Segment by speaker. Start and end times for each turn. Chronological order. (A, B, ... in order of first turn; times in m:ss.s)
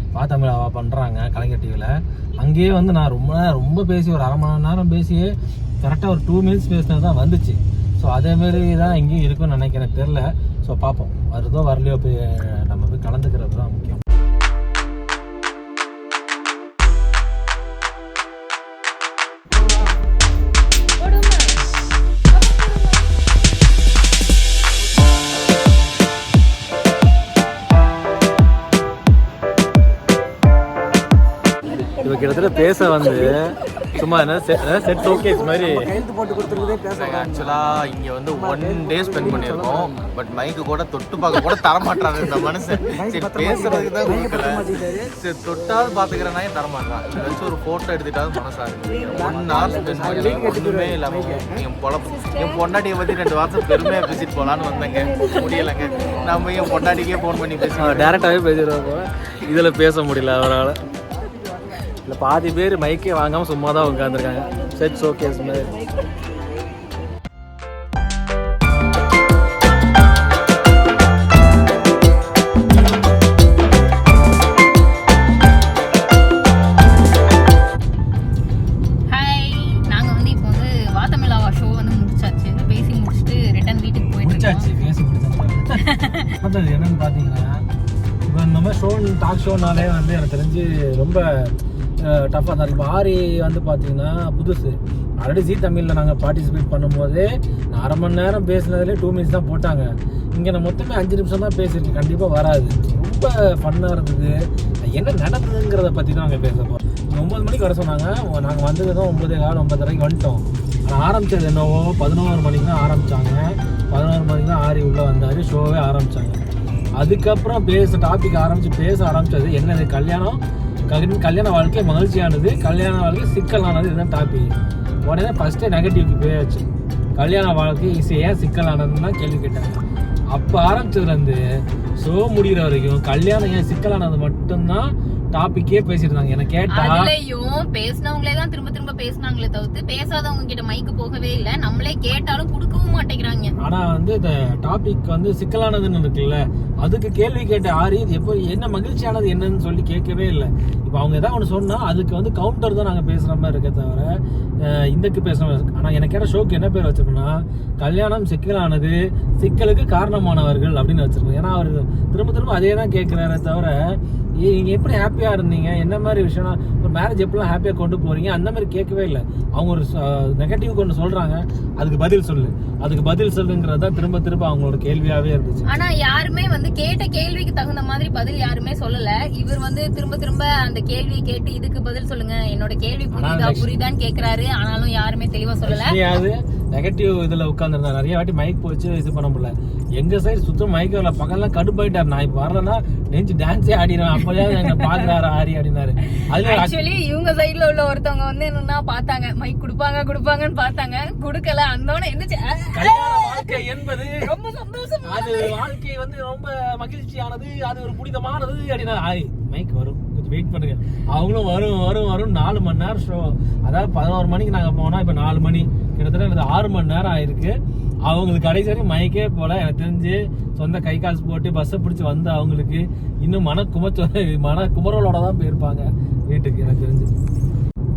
0:00.2-0:14.0 A
0:21.0-0:21.7 B
0:22.3-0:23.1 B
0:31.8-0:35.8 A
0:35.4-0:37.4 C
0:36.4-0:58.1 D
0:38.6-0:39.9 C
0:43.1-0:45.0 C
0:49.9-0:50.9 C
0:57.8-1:00.8 A
1:02.0-1:05.7 A
1:19.1-1:24.7 B
1:24.2-1:25.8 A
1:25.9-1:26.3 B
1:26.4-1:27.6 A
1:28.2-1:56.4 A
1:57.0-2:04.5 A
2:05.0-2:06.6 A
2:07.2-2:09.8 A
2:10.3-2:11.4 A
2:12.0-2:17.1 A
2:16.7-2:23.5 B
2:23.6-2:55.8 A
2:55.7-3:06.0 B
3:03.1-3:03.7 A
3:05.6-3:16.7 A
3:14.3-3:15.0 B
3:16.1-3:23.6 B
3:22.7-3:24.3 A
3:24.2-3:25.6 B
3:25.0-3:47.1 A